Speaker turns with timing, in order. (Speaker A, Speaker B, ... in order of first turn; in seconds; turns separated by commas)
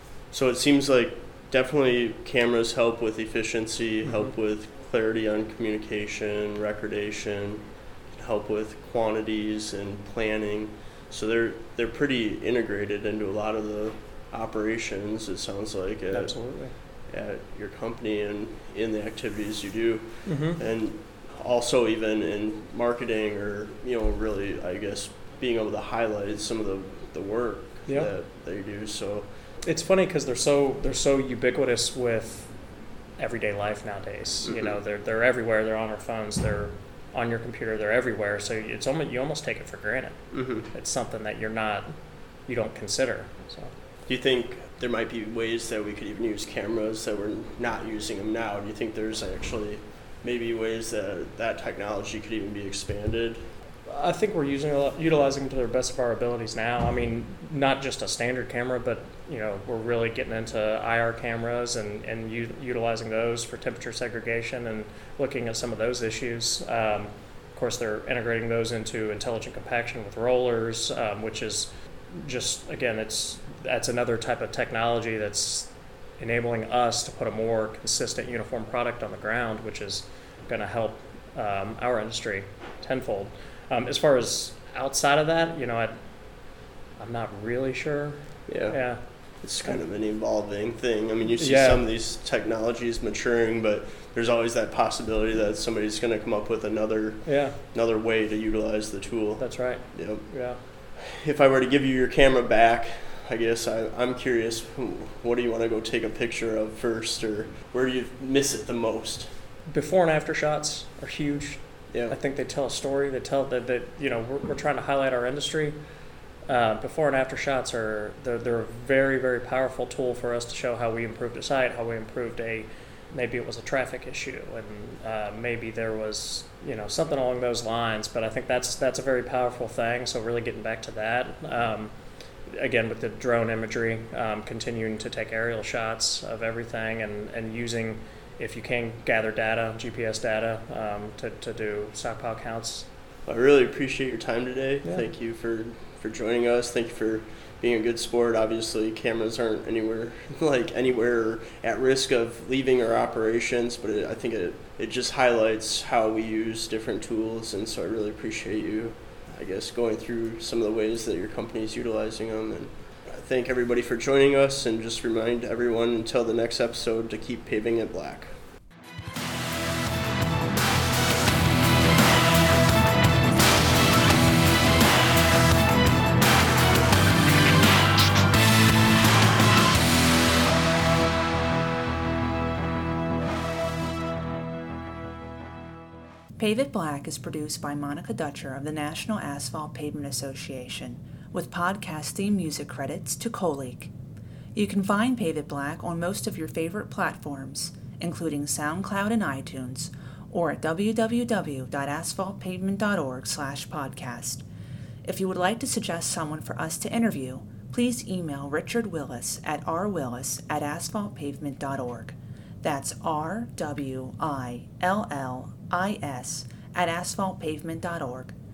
Speaker A: 0.3-16.4, Speaker B: 4.0-4.3, Speaker B: 16.1-16.7, Speaker A: 17.1-29.3, Speaker B: 20.2-20.6, Speaker B: 27.9-28.1, Speaker B: 29.6-32.5, Speaker B: 33.2-41.9, Speaker A: 34.4-34.8, Speaker A: 40.3-40.7, Speaker B: 42.5-43.7, Speaker A: 44.1-53.5, Speaker B: 53.9-85.9, Speaker B: 87.0-89.1, Speaker A: 88.5-100.3, Speaker B: 91.3-91.8, Speaker B: 97.2-97.6, Speaker B: 99.4-100.6, Speaker A: 101.0-109.3, Speaker B: 109.7-115.8, Speaker B: 116.5-131.9, Speaker B: 132.5-142.9, Speaker A: 143.2-168.3, Speaker C: 186.4-193.9, Speaker C: 194.5-204.4, Speaker C: 205.0-218.3